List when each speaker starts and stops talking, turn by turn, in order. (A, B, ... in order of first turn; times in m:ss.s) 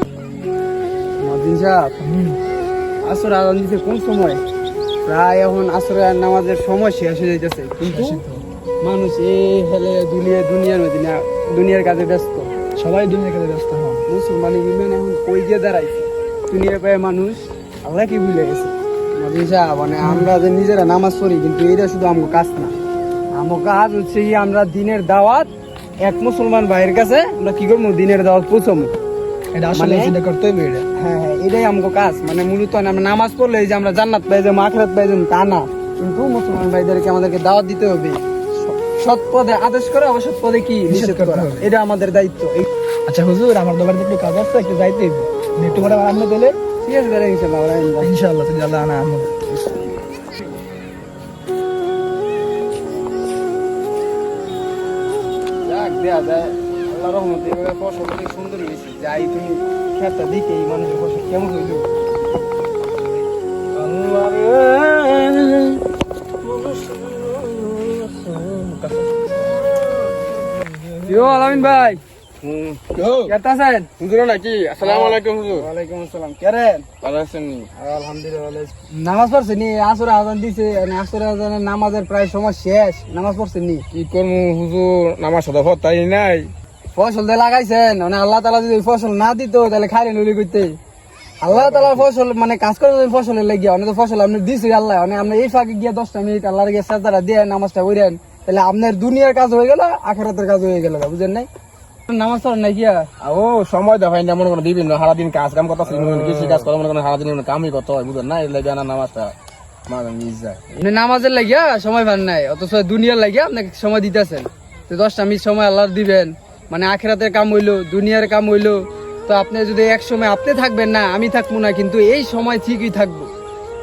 0:01.2-0:01.9 A
0:02.0-0:02.4 B
0:03.0-0:04.4 A
0:05.0-0:08.2 A
0:07.8-0:08.4 B
0:08.8-0:12.5 A
0:12.8-0:14.0 B
0:14.1-0:22.7 A
0:20.0-0:20.3 B
0:23.3-0:25.5 A
0:26.0-0:28.9 A
0:29.5-0:30.8 B
0:29.7-0:30.1 A
0:31.0-0:42.7 A
0:40.9-0:41.7 B
0:43.1-0:46.5 B
0:46.8-0:48.1 A
0:48.0-0:49.8 B
0:55.6-1:01.9 A
1:03.7-1:05.8 C
1:06.4-1:11.7 C
1:11.1-1:12.0 A
1:12.4-1:13.3 C
1:13.3-1:13.9 A
1:14.0-1:15.7 C
1:14.8-1:16.8 A
1:17.0-1:17.7 C
1:17.7-1:23.8 A
1:23.9-1:26.5 C
1:27.0-1:30.8 A
1:31.4-1:41.5 A
1:31.5-1:32.1 C
1:42.1-1:43.1 A
1:43.2-1:49.3 C
1:49.9-1:50.6 C
1:50.7-2:03.3 A